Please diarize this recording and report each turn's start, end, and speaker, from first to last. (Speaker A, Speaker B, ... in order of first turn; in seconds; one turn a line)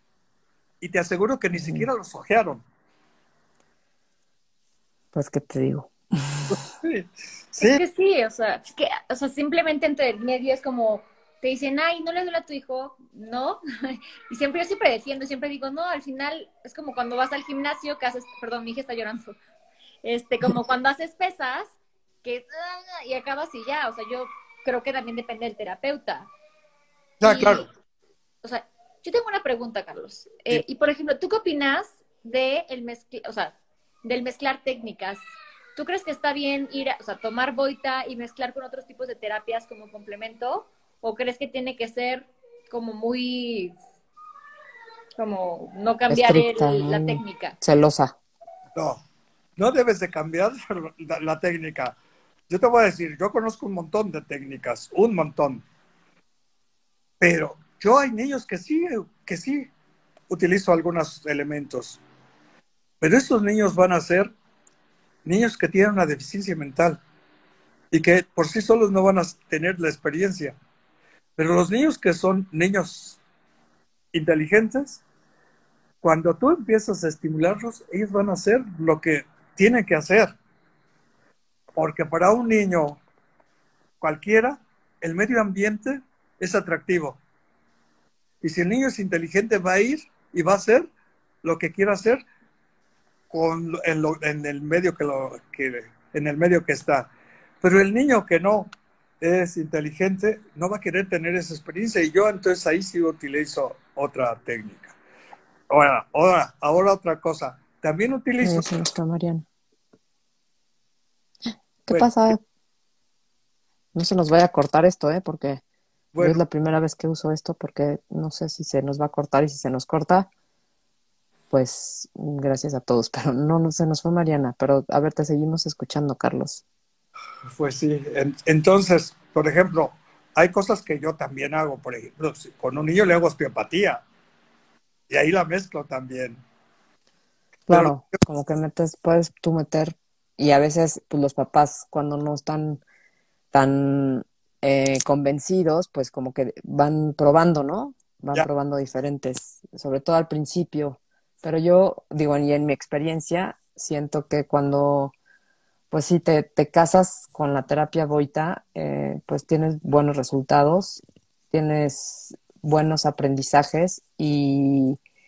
Speaker A: 0.8-2.6
Speaker B: 1.5-1.9
Speaker B: 5.1-6.6
Speaker A: 6.8-7.8
Speaker C: 7.6-19.3
Speaker C: 20.0-26.3
Speaker A: 27.2-27.6
Speaker C: 27.2-27.7
Speaker C: 28.4-35.2
Speaker C: 35.8-43.8
Speaker C: 45.2-47.6
Speaker B: 46.1-48.1
Speaker A: 48.7-49.0
Speaker A: 49.6-52.0
Speaker A: 52.5-55.6
Speaker A: 57.2-59.7
Speaker A: 60.3-62.0
Speaker A: 63.0-64.3
Speaker A: 65.2-67.0
Speaker A: 67.9-70.5
Speaker A: 71.4-73.2
Speaker A: 74.1-75.0
Speaker A: 76.0-80.3
Speaker A: 81.8-83.0
Speaker A: 84.0-87.2
Speaker A: 88.4-90.9
Speaker A: 91.4-92.2
Speaker A: 93.3-97.1
Speaker A: 97.6-104.9
Speaker A: 105.7-108.7
Speaker B: 108.4-109.5
Speaker B: 111.8-112.4
Speaker B: 113.9-115.6
Speaker A: 116.1-116.4
Speaker B: 116.2-120.3
Speaker B: 121.5-126.6
Speaker A: 127.5-134.0
Speaker A: 135.1-136.4
Speaker B: 137.7-142.8
Speaker A: 137.7-138.0
Speaker B: 143.5-155.1
Speaker B: 155.9-165.0